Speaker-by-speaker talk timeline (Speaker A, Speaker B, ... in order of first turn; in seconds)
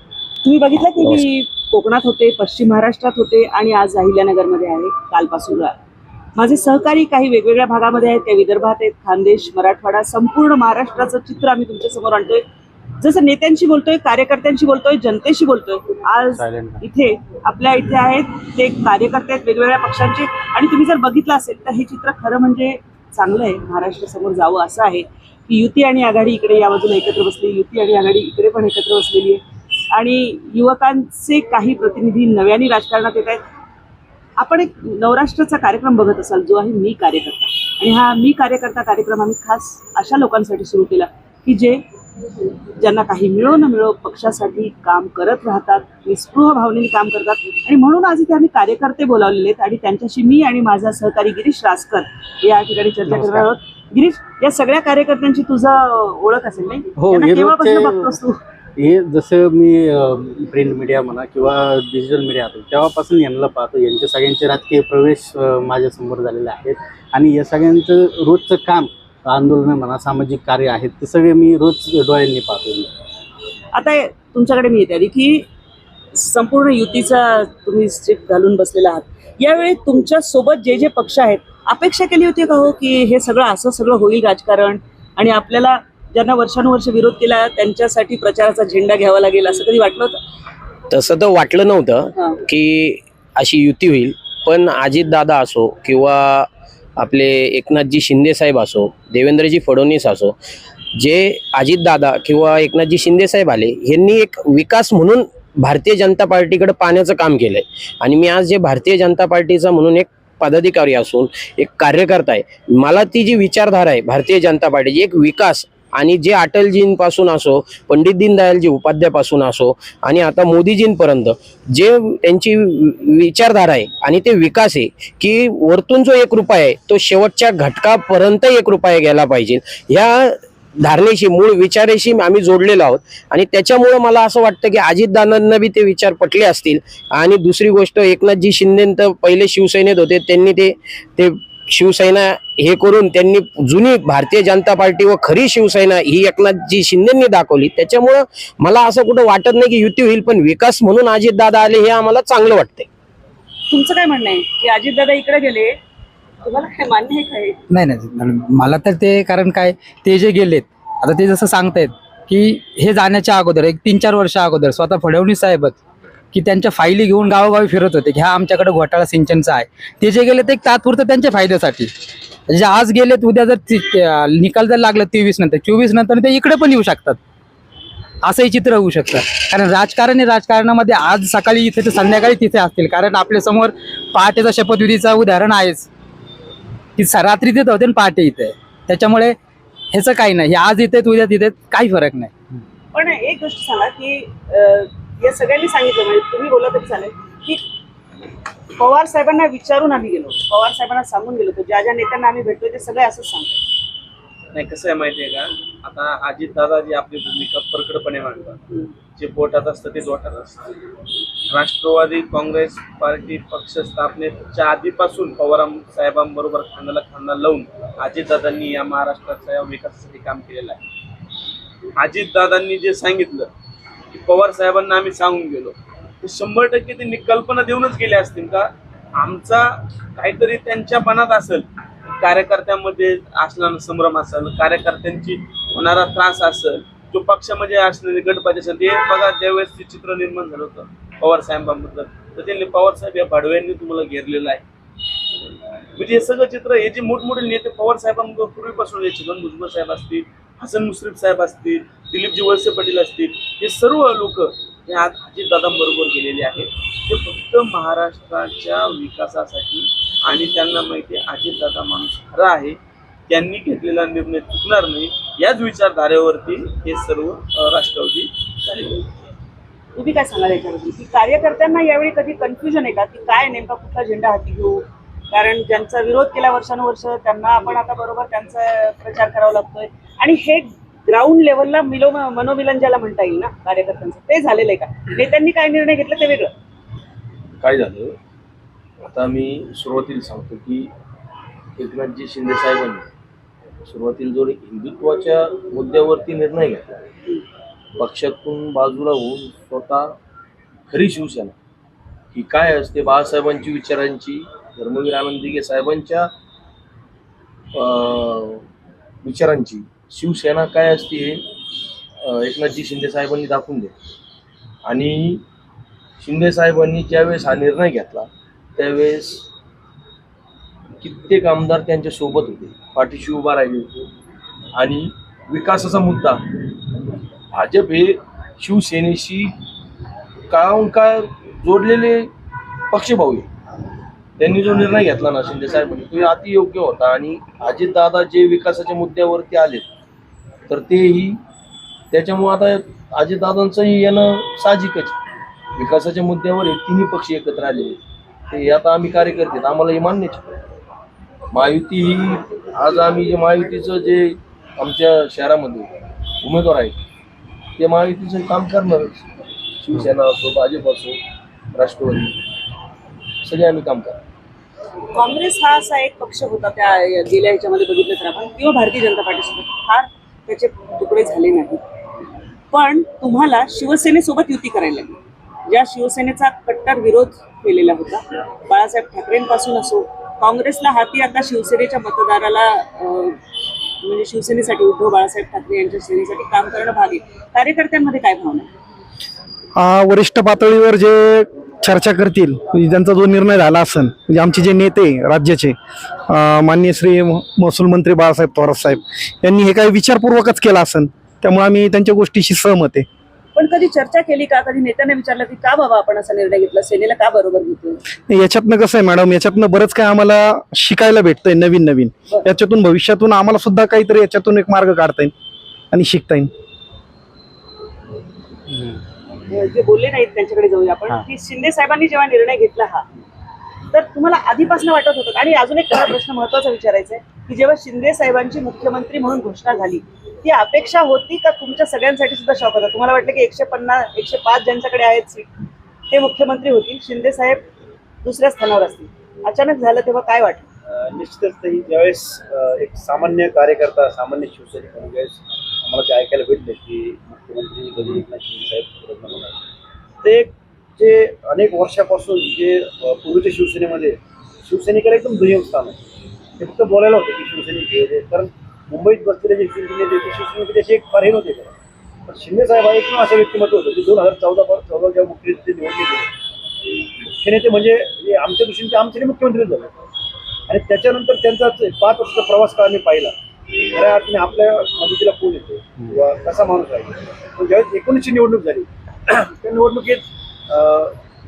Speaker A: 0.4-5.8, 6.3-12.4, 13.0-33.4, 34.4-41.8, 42.8-58.4, 73.7-75.5, 76.1-90.2, 153.7-155.8, 156.4-157.6, 192.9-197.6, 198.8-203.6, 269.9-286.5, 365.1-371.8, 372.7-383.4, 384.0-388.7, 403.5-408.0, 419.4-423.1, 423.9-435.5, 436.1-437.6, 438.2-440.7
Speaker B: 16.3-16.8, 53.1-53.5, 57.0-58.2, 58.8-72.9, 418.7-419.0
Speaker C: 90.9-96.5, 97.0-100.3, 101.0-152.9
Speaker D: 157.7-165.8, 166.3-171.9, 172.5-177.2, 178.2-185.9, 187.0-189.3, 189.9-192.3
Speaker E: 204.5-208.6, 209.2-210.6, 211.5-220.8, 222.0-223.5, 224.1-231.7, 232.2-244.6, 245.9-262.8, 263.3-268.9
Speaker F: 287.6-288.1, 289.0-290.9, 291.8-293.1, 293.8-297.0, 297.9-300.1, 300.9-301.5, 302.3-306.3, 307.7-308.6, 309.2-311.4, 312.2-313.9, 314.9-315.4, 316.2-319.4, 321.0-323.9, 324.7-326.5, 327.5-329.5, 330.5-332.3, 332.9-333.5, 334.4-339.9, 340.7-341.4, 342.1-345.2, 345.8-350.5, 351.5-357.0, 357.8-359.3, 359.8-361.2, 361.7-362.4, 363.4-364.2
Speaker G: 389.8-395.7, 396.3-403.1, 408.3-415.3, 415.9-416.5
Speaker H: 440.9-449.6, 450.2-456.0, 456.6-461.7, 462.3-466.3, 467.3-469.9, 470.7-481.1